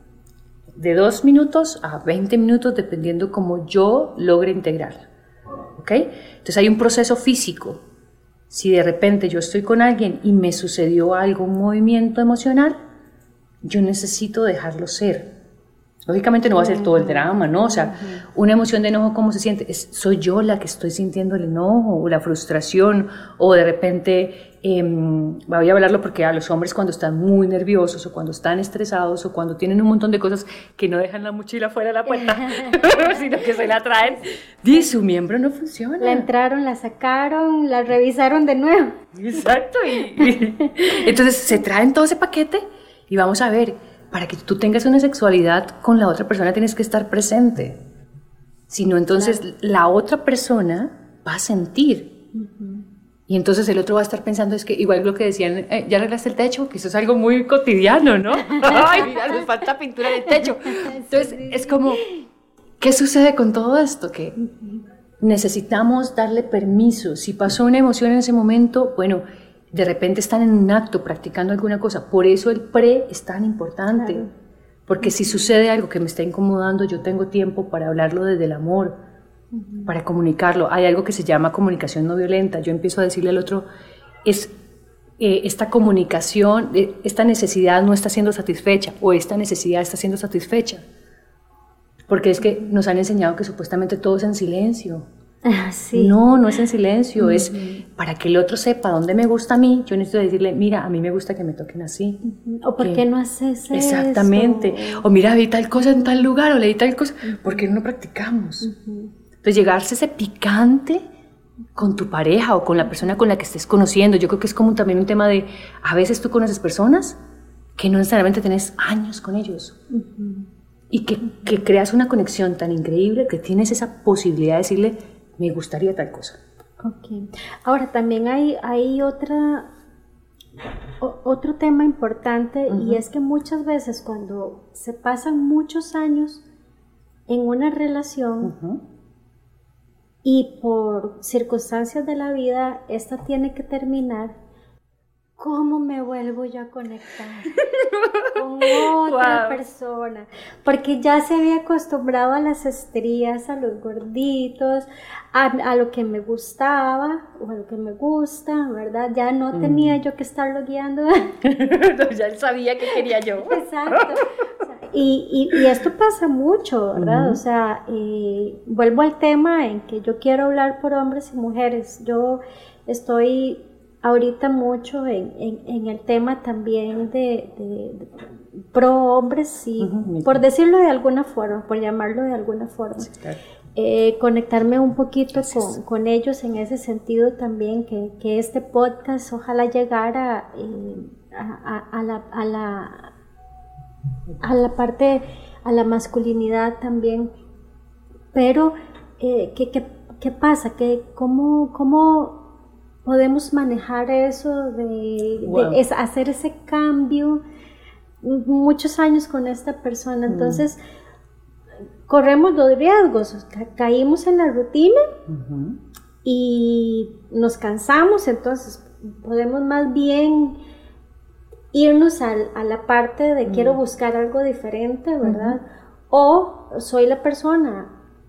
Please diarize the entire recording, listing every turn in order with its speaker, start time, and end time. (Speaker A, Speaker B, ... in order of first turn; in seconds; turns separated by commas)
Speaker A: 0.7-5.1, Speaker A: 5.7-7.8, Speaker A: 8.5-12.8, Speaker A: 13.6-15.3, Speaker A: 16.1-36.3, Speaker B: 16.5-18.2, Speaker B: 32.4-33.1, Speaker B: 36.0-39.0, Speaker A: 39.1-47.8, Speaker A: 48.7-52.1, Speaker B: 52.3-52.9, Speaker A: 53.3-62.0, Speaker B: 60.7-62.2, Speaker A: 62.8-64.3, Speaker A: 65.2-74.3, Speaker B: 74.0-74.3, Speaker A: 74.9-79.0, Speaker B: 75.0-75.4, Speaker B: 79.5-79.9, Speaker A: 79.8-83.7, Speaker A: 84.2-84.5, Speaker A: 85.2-90.8, Speaker A: 92.1-95.1, Speaker B: 95.4-96.2, Speaker A: 95.9-102.2, Speaker B: 97.2-97.8, Speaker B: 102.2-105.0, Speaker A: 102.8-103.0, Speaker A: 103.7-108.7, Speaker B: 108.6-109.1, Speaker A: 109.4-111.0, Speaker A: 111.8-117.2, Speaker A: 117.8-119.8, Speaker B: 119.9-120.5, Speaker A: 120.9-126.4, Speaker B: 126.8-129.7, Speaker B: 131.0-136.4, Speaker A: 132.7-133.0, Speaker B: 137.3-138.5, Speaker A: 138.4-138.8, Speaker B: 140.2-144.4, Speaker B: 145.4-147.7, Speaker A: 147.6-149.6, Speaker B: 148.3-161.3, Speaker A: 159.5-160.0, Speaker A: 161.4-164.2, Speaker B: 163.4-183.1, Speaker A: 166.9-167.4, Speaker A: 179.8-180.4, Speaker A: 183.0-183.4, Speaker B: 183.8-193.1, Speaker A: 185.4-185.7, Speaker B: 194.4-197.3, Speaker B: 198.3-202.4, Speaker B: 203.0-207.4, Speaker A: 205.4-205.8, Speaker B: 208.2-210.8, Speaker A: 210.3-210.6, Speaker B: 212.1-215.0, Speaker A: 215.3-215.8, Speaker B: 216.2-220.6, Speaker B: 221.7-227.9, Speaker A: 223.4-223.8, Speaker A: 225.2-225.6